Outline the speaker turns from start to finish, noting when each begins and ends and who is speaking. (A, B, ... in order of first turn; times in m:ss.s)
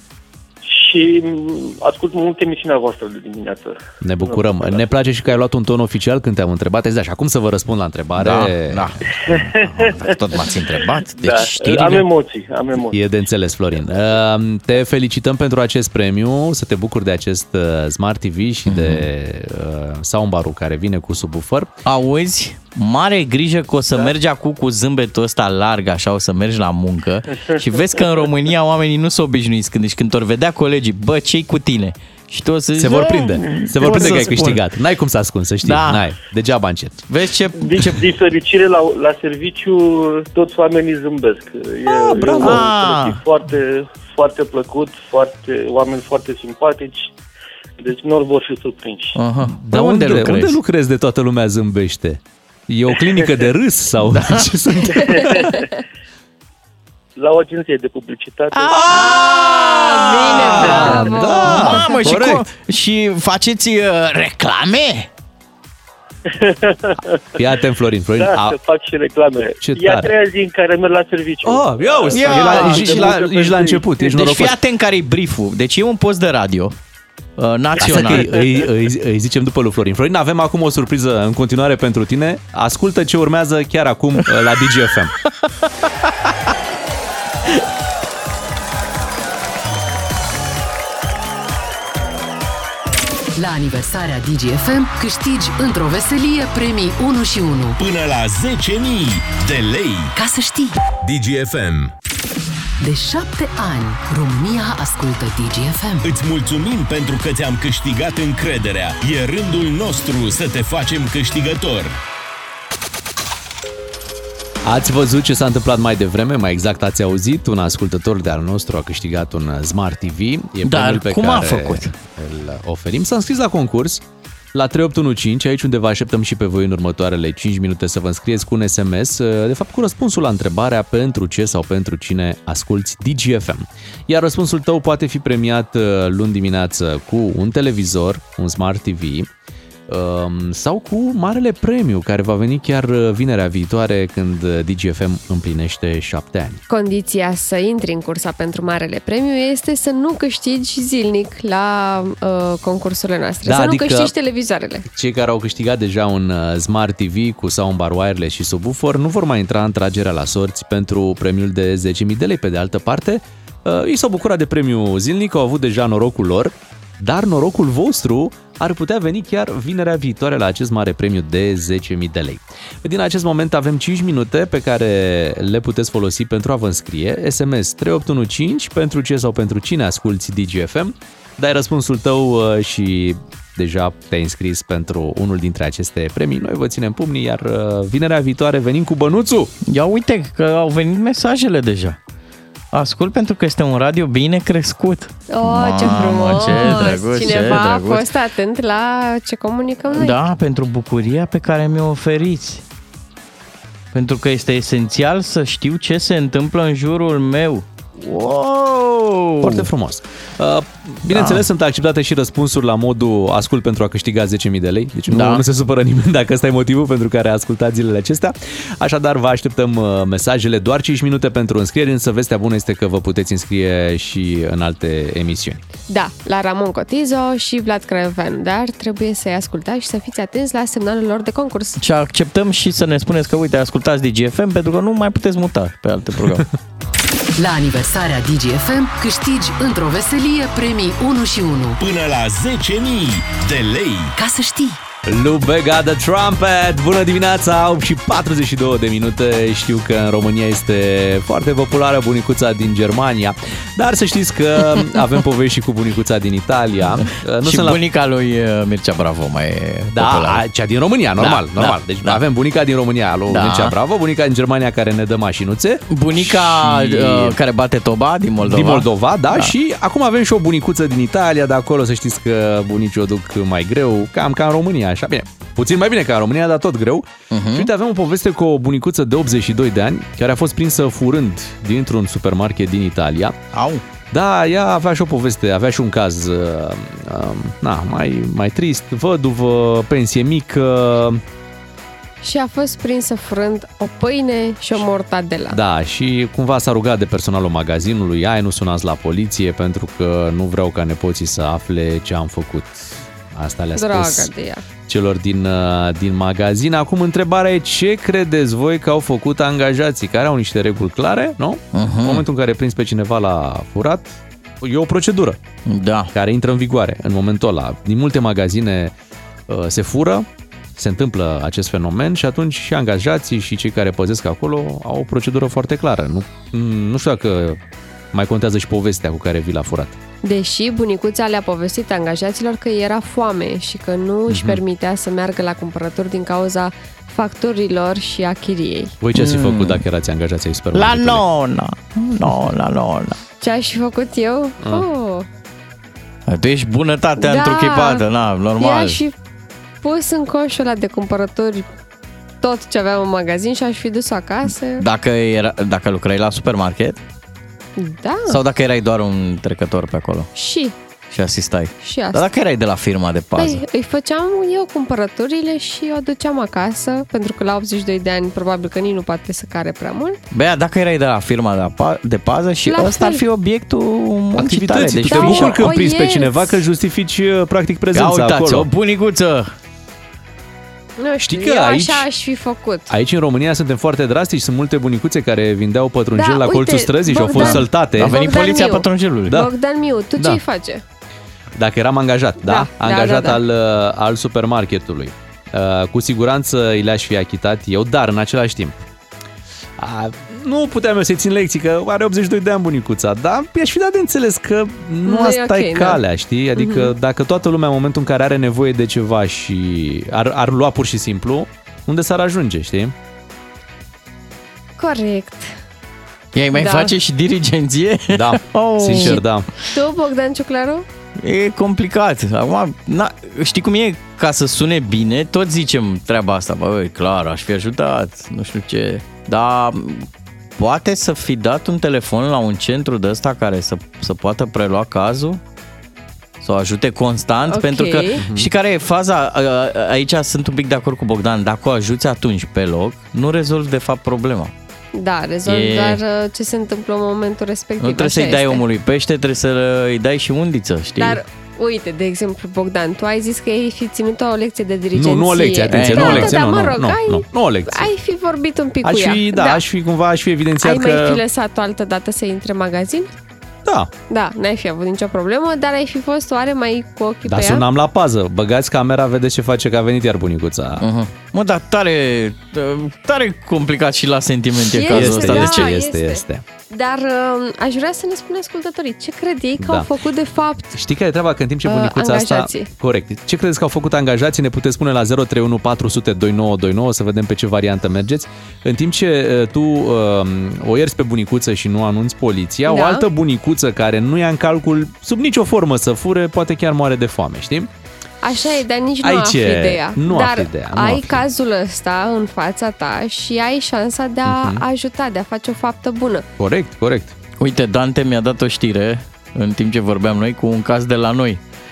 0:00.6-0:04.9 A
0:04.0-0:08.9 B
0:08.2-0:12.0 C
0:09.3-0:10.2 A
0:11.2-0:13.0 A
0:11.7-0:12.0 B
0:12.7-0:21.7 B
0:18.7-0:19.0 C
0:21.9-0:34.6 C
0:27.4-0:28.2 A
0:32.8-0:37.0 B
0:35.6-0:36.0 C
0:37.1-0:38.1 C
0:37.6-0:47.1 A
0:41.9-0:42.7 B
0:42.3-0:43.2 C
0:47.8-0:49.2 A
0:49.2-0:50.6 C
0:49.5-0:55.5 B
0:54.2-0:54.4 C
0:54.9-0:55.8 A
0:57.2-0:59.1 A
0:58.5-1:05.1 C
0:58.7-1:02.4 B
0:59.1-1:02.0 D
1:06.3-1:07.4 A
1:07.4-1:08.6 B
1:08.2-1:13.8 A
1:09.6-1:10.1 B
1:11.4-1:14.6 B
1:12.1-1:13.2 C
1:14.0-1:16.8 C
1:17.4-1:18.5 C
1:17.8-1:25.2 B
1:33.4-1:37.8 E
1:37.8-1:40.2 F
1:40.2-1:40.8 E
1:41.0-1:41.9 F
1:42.8-1:46.0 E
1:46.0-1:52.0 F
1:54.6-2:04.0 B
2:00.6-2:01.9 C
2:04.5-2:19.3 B
2:19.9-2:26.6 B
2:26.7-2:34.8 D
2:33.5-2:34.1 B
2:34.9-3:09.5 B
3:09.7-3:12.0 C
3:12.7-3:18.1 C
3:15.3-3:20.2 D
3:19.9-3:22.6 C
3:23.9-3:29.7 C
3:29.4-3:45.6 B
3:31.1-3:31.4 C
3:35.1-3:35.4 C
3:45.9-3:51.8 D
3:51.8-3:56.5 C
3:57.4-4:01.8 E
4:01.8-4:04.2 F
4:04.2-4:04.8 E
4:05.1-4:17.8 B
4:17.4-4:20.4 C
4:19.9-4:27.4 B
4:21.2-4:22.2 C
4:23.3-4:23.7 C
4:25.9-4:29.5 C
4:28.4-4:43.4 B
4:37.3-4:37.7 C
4:43.5-4:43.8 C
4:44.1-4:51.2 B
4:52.2-4:55.6 D
4:55.5-5:04.3 B
5:03.8-5:04.6 D
5:04.8-5:15.4 B
5:11.8-5:12.2 C
5:15.7-5:16.1 C
5:16.1-5:18.9 B
5:19.5-5:27.6 B
5:28.1-5:30.0 B
5:30.2-5:38.9 D
5:34.3-5:34.6 B
5:39.0-5:41.2 B
5:39.2-5:39.8 C
5:40.7-5:43.2 C
5:43.4-5:45.3 D
5:46.3-5:49.0 C
5:47.2-5:48.0 D
5:48.6-5:49.2 D
5:49.8-5:51.7 D
5:52.4-5:54.8 D
5:54.8-5:57.0 C
5:57.8-5:58.4 D
5:58.3-6:00.3 C
6:00.3-6:00.8 D
6:01.1-6:03.6 C
6:01.8-6:02.3 D
6:03.4-6:10.2 D
6:10.3-6:15.6 C
6:12.7-6:13.2 D
6:14.4-6:18.7 B
6:15.1-6:16.6 D
6:17.9-6:19.5 C
6:21.0-6:22.9 D
6:21.2-6:22.1 B
6:22.9-6:28.2 B
6:26.2-6:30.8 D
6:27.3-6:29.4 C
6:31.6-6:38.8 B
6:32.4-6:33.4 D
6:39.8-6:52.9 B
6:45.0-6:46.0 D
6:46.6-6:46.9 D
6:54.8-6:55.6 D
6:56.3-6:59.2 C
6:56.6-6:56.9 D
6:58.1-6:59.5 B
6:59.7-7:00.9 D
7:01.2-7:15.4 C
7:16.4-7:24.5 C
7:17.5-7:18.2 D
7:18.2-7:18.5 B
7:24.9-7:28.6 D
7:25.5-7:26.0 C
7:27.8-7:31.2 C
7:31.0-7:39.6 D
7:34.9-7:37.9 B
7:35.7-7:36.4 C
7:38.8-7:41.2 B
7:40.6-7:43.1 D
7:44.1-7:47.6 D
7:47.3-7:50.8 B
7:50.8-7:55.7 C
7:54.7-8:00.7 D
7:54.9-7:56.4 B
7:59.6-7:59.9 B
8:00.7-8:17.7 B
8:01.6-8:02.7 D
8:12.7-8:13.1 D
8:18.2-8:26.3 D
8:19.0-8:21.2 B
8:24.2-8:24.6 B
8:26.4-8:27.2 B
8:27.4-8:31.4 C